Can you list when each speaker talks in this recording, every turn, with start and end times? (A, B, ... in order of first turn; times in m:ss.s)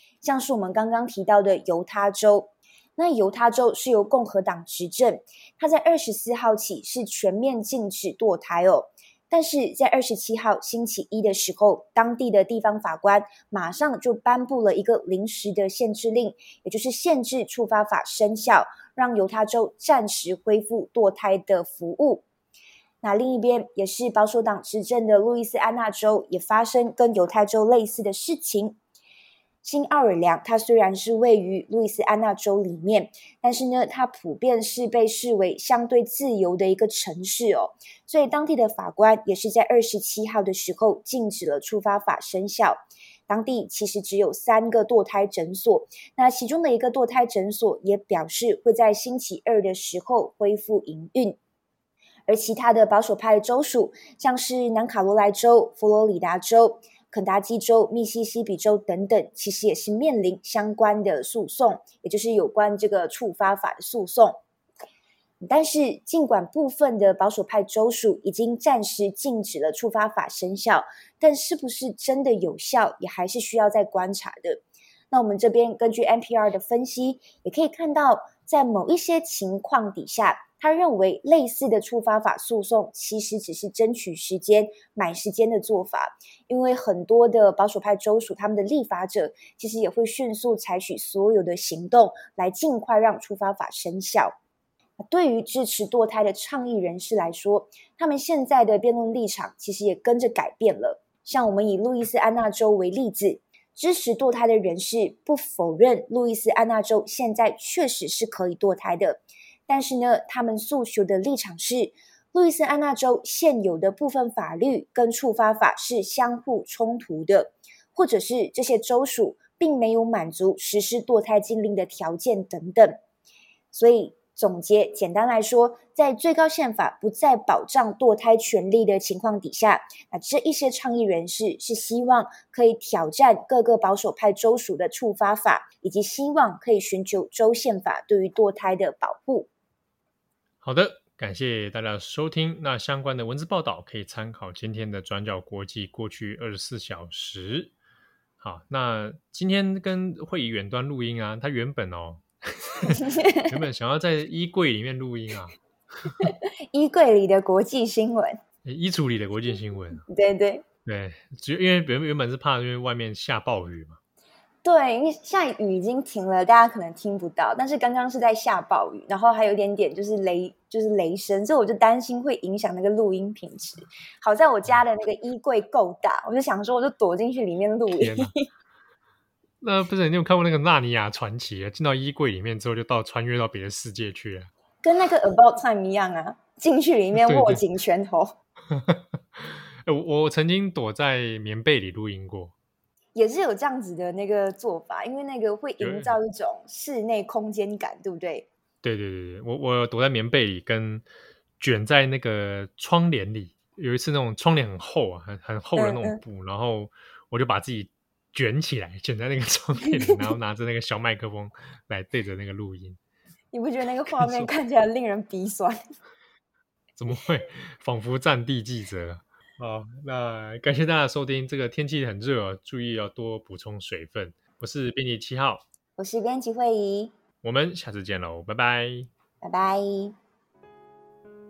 0:00.2-0:22.2 A
0:23.0-0:28.8 A
0:29.6-0:51.4 A
0:52.3-1:04.4 A
1:05.4-1:34.3 A
1:35.0-2:03.0 A
2:03.7-2:19.5 A
2:20.6-2:27.7 B
2:28.4-2:36.3 B
2:36.2-2:38.4 A
2:38.6-2:40.0 B
2:40.1-2:40.6 A
2:40.8-2:44.0 B
2:44.6-2:58.4 A
2:57.9-2:58.3 B
2:59.6-3:04.5 B
3:04.8-3:08.4 A
3:07.1-3:07.6 B
3:08.7-3:12.5 B
3:13.1-3:18.5 A
3:15.8-3:16.2 B
3:18.8-3:21.0 B
3:21.6-3:33.0 B
3:25.8-3:26.2 A
3:33.5-3:35.8 A
3:34.1-3:34.5 B
3:37.0-3:45.6 B
3:46.0-3:47.1 A
3:47.4-3:49.1 B
3:49.4-3:50.1 A